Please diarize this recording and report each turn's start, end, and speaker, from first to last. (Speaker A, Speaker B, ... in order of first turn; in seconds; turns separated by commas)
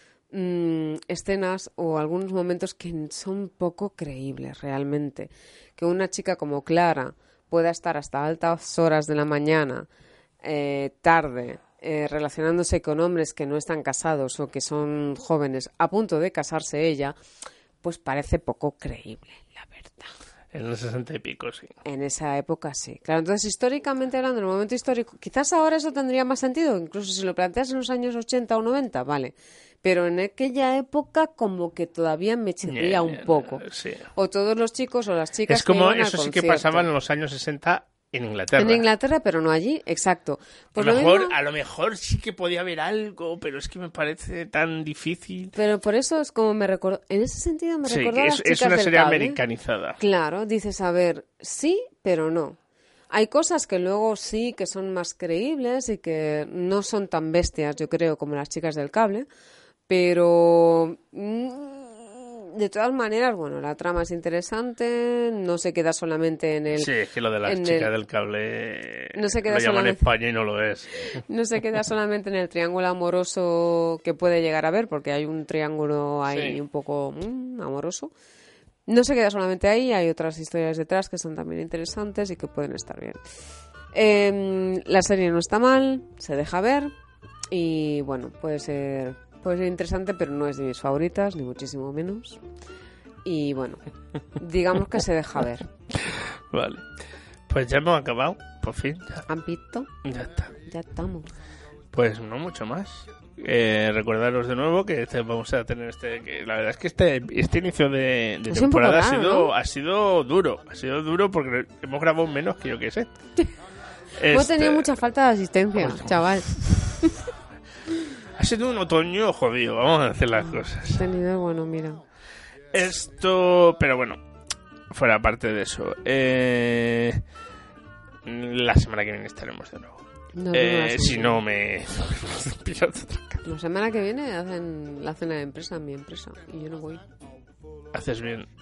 Speaker A: 0.3-9.9, Speaker A: 10.4-17.1, Speaker A: 17.8-20.1, Speaker B: 20.5-21.7, Speaker A: 21.8-33.6, Speaker B: 32.6-34.1, Speaker A: 34.1-36.9, Speaker B: 35.5-38.8, Speaker A: 38.6-41.3, Speaker B: 40.8-45.5, Speaker A: 45.5-49.4, Speaker B: 47.9-50.0, Speaker A: 50.0-52.6, Speaker A: 53.1-59.3, Speaker A: 59.9-66.9, Speaker B: 66.8-71.2, Speaker A: 67.5-67.9, Speaker A: 69.1-70.0, Speaker A: 71.1-78.1, Speaker B: 76.3-76.6, Speaker A: 78.9-83.2, Speaker A: 83.9-86.9, Speaker A: 87.5-92.4, Speaker A: 93.2-93.8, Speaker A: 94.3-95.7, Speaker B: 95.9-96.8, Speaker B: 97.5-99.3, Speaker A: 99.3-99.9, Speaker B: 100.0-100.5, Speaker A: 100.6-101.3, Speaker B: 101.9-113.1, Speaker A: 108.5-109.5, Speaker B: 114.2-115.0, Speaker A: 114.3-117.2, Speaker B: 115.8-116.1, Speaker B: 118.3-121.0, Speaker A: 120.4-122.0, Speaker B: 122.7-124.2, Speaker B: 124.9-127.2, Speaker B: 128.2-130.0, Speaker A: 130.3-131.4, Speaker B: 130.5-133.4, Speaker A: 133.4-137.0, Speaker B: 137.9-138.5